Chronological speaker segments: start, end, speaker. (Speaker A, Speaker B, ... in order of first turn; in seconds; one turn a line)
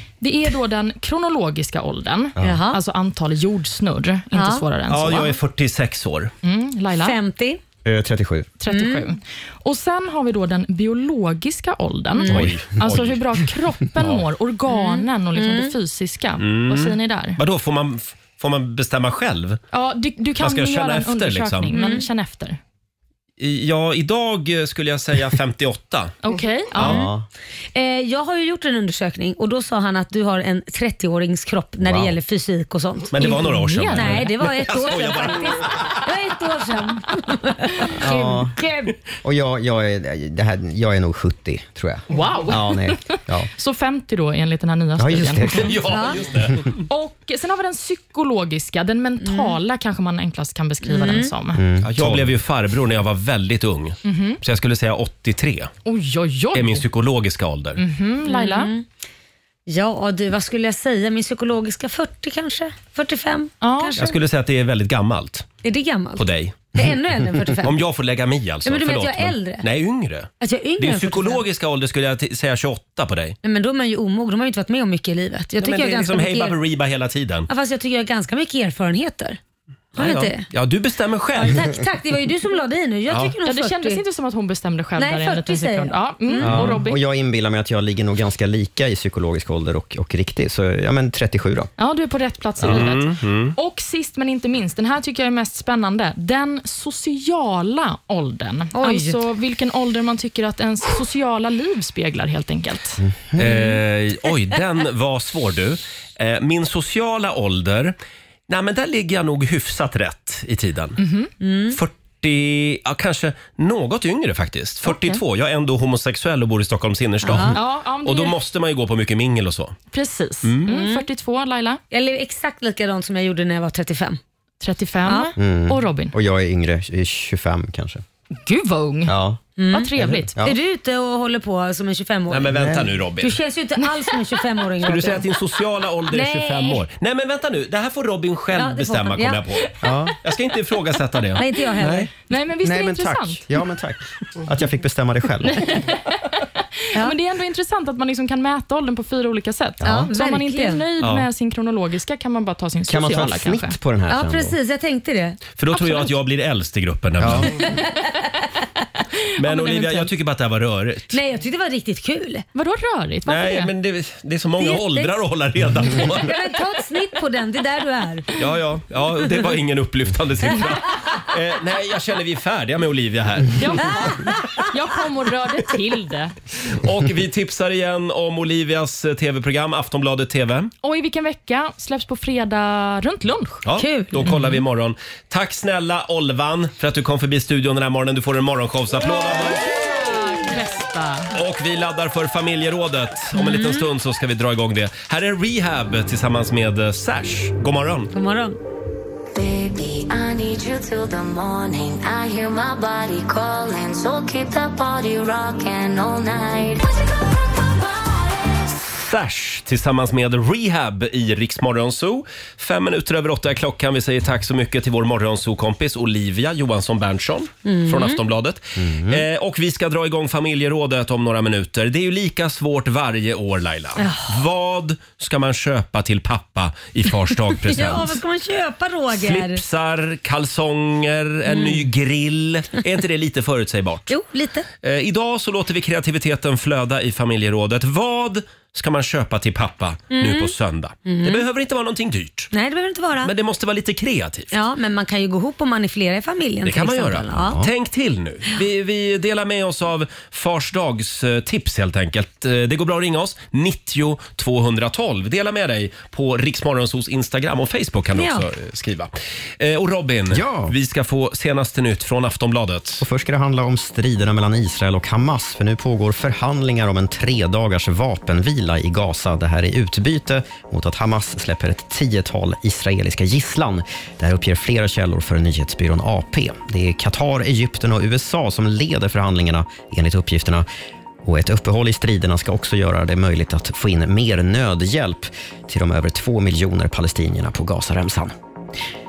Speaker A: 0.2-5.4
Speaker B: 2.4-2.6
Speaker C: 2.4-2.8
Speaker C: 4.3-4.6
Speaker D: 4.9-6.3
Speaker A: 6.4-7.2
Speaker C: 7.0-7.6
Speaker B: 7.8-8.5
Speaker A: 8.6-17.4
Speaker C: 8.7-9.1
Speaker C: 12.2-12.5
Speaker D: 12.3-13.2
Speaker B: 12.3-12.7
Speaker C: 14.7-15.7
Speaker D: 16.4-19.6
Speaker A: 19.7-22.6
Speaker D: 20.4-21.7
Speaker C: 21.7-22.1
Speaker D: 23.4-26.1
Speaker A: 26.2-27.0
Speaker B: 26.8-27.3
Speaker C: 26.8-27.1
Speaker C: 27.7-33.4
Speaker D: 33.1-35.8
Speaker A: 33.2-34.3
Speaker C: 33.9-38.9
Speaker B: 38.0-38.5
Speaker B: 39.2-43.5
Speaker A: 42.1-42.9
Speaker A: 43.5-45.7
Speaker B: 45.0-45.8
Speaker D: 45.5-46.7
Speaker C: 45.9-46.2
Speaker A: 46.9-51.6
Speaker C: 49.2-49.6
Speaker C: 50.8-51.3
Speaker B: 51.5-52.3
Speaker D: 51.8-55.7
Speaker A: 54.0-54.4
Speaker A: 55.9-56.8
Speaker D: 56.5-57.8
Speaker A: 57.8-58.7
Speaker C: 58.3-58.9
Speaker C: 59.7-64.2
Speaker A: 63.6-64.0
Speaker D: 64.0-65.5
Speaker C: 65.6-67.8
Speaker D: 66.2-66.5
Speaker D: 67.6-73.4
Speaker C: 68.6-69.6
Speaker C: 70.4-71.4
Speaker C: 73.4-76.6
Speaker D: 75.6-77.5
Speaker C: 77.5-79.4
Speaker C: 80.0-80.5
Speaker D: 80.0-81.6
Speaker C: 81.4-84.0
Speaker A: 83.4-87.0
Speaker C: 85.0-86.7
Speaker B: 86.4-91.7
Speaker A: 91.8-103.0
Speaker D: 92.6-93.5
Speaker C: 98.7-99.2
Speaker B: 103.0-103.5
Speaker D: 103.4-108.0
Speaker D: 108.5-111.0
Speaker A: 111.0-111.3
Speaker C: 111.4-111.8
Speaker D: 111.7-119.8
Speaker A: 114.9-115.1
Speaker C: 117.2-117.5
Speaker A: 117.5-118.4
Speaker A: 119.9-121.8
Speaker C: 120.7-121.0
Speaker C: 121.9-124.2
Speaker A: 124.6-126.1
Speaker B: 125.4-128.0
Speaker A: 128.4-129.1
Speaker B: 129.1-129.4
Speaker C: 129.6-132.6
Speaker A: 129.7-130.4
Speaker B: 129.9-130.6
Speaker D: 132.3-133.4
Speaker B: 132.5-132.9
Speaker C: 133.2-135.2
Speaker D: 134.8-139.7
Speaker C: 136.1-136.8
Speaker C: 138.6-139.4
Speaker B: 139.8-140.1
Speaker D: 140.2-142.0
Speaker C: 141.4-142.1
Speaker A: 142.3-143.4
Speaker B: 142.6-145.7
Speaker A: 145.5-146.0
Speaker A: 146.9-153.7
Speaker B: 149.8-150.1
Speaker C: 149.8-150.8
Speaker D: 151.0-151.3
Speaker B: 152.9-154.6
Speaker C: 154.1-155.4
Speaker D: 155.6-157.5
Speaker B: 157.2-157.5
Speaker D: 159.4-161.2
Speaker A: 159.5-160.0
Speaker C: 161.1-162.4
Speaker A: 162.6-163.7
Speaker D: 163.3-166.3
Speaker C: 164.6-165.2
Speaker C: 165.9-168.3
Speaker D: 168.4-173.7
Speaker A: 173.6-176.3
Speaker D: 176.7-180.7
Speaker A: 180.8-183.6
Speaker D: 183.6-189.6
Speaker C: 183.8-184.4
Speaker A: 184.3-184.5
Speaker A: 189.3-191.3
Speaker D: 191.3-198.1
Speaker C: 193.3-193.9
Speaker C: 198.1-198.6
Speaker E: 199.3-206.9
Speaker D: 208.7-228.2
Speaker C: 217.6-218.2
Speaker B: 218.8-219.2
Speaker C: 224.0-224.3
Speaker C: 227.7-229.6
Speaker D: 229.1-234.1
Speaker C: 231.5-231.8
Speaker C: 234.1-234.7
Speaker D: 234.8-242.5
Speaker C: 240.1-240.5
Speaker C: 241.1-241.4
Speaker C: 242.5-243.3
Speaker D: 243.2-244.5
Speaker C: 244.5-247.6
Speaker D: 246.6-263.0
Speaker B: 247.4-247.7
Speaker C: 258.1-258.4
Speaker B: 260.3-260.7
Speaker B: 263.0-280.6
Speaker B: 281.2-288.3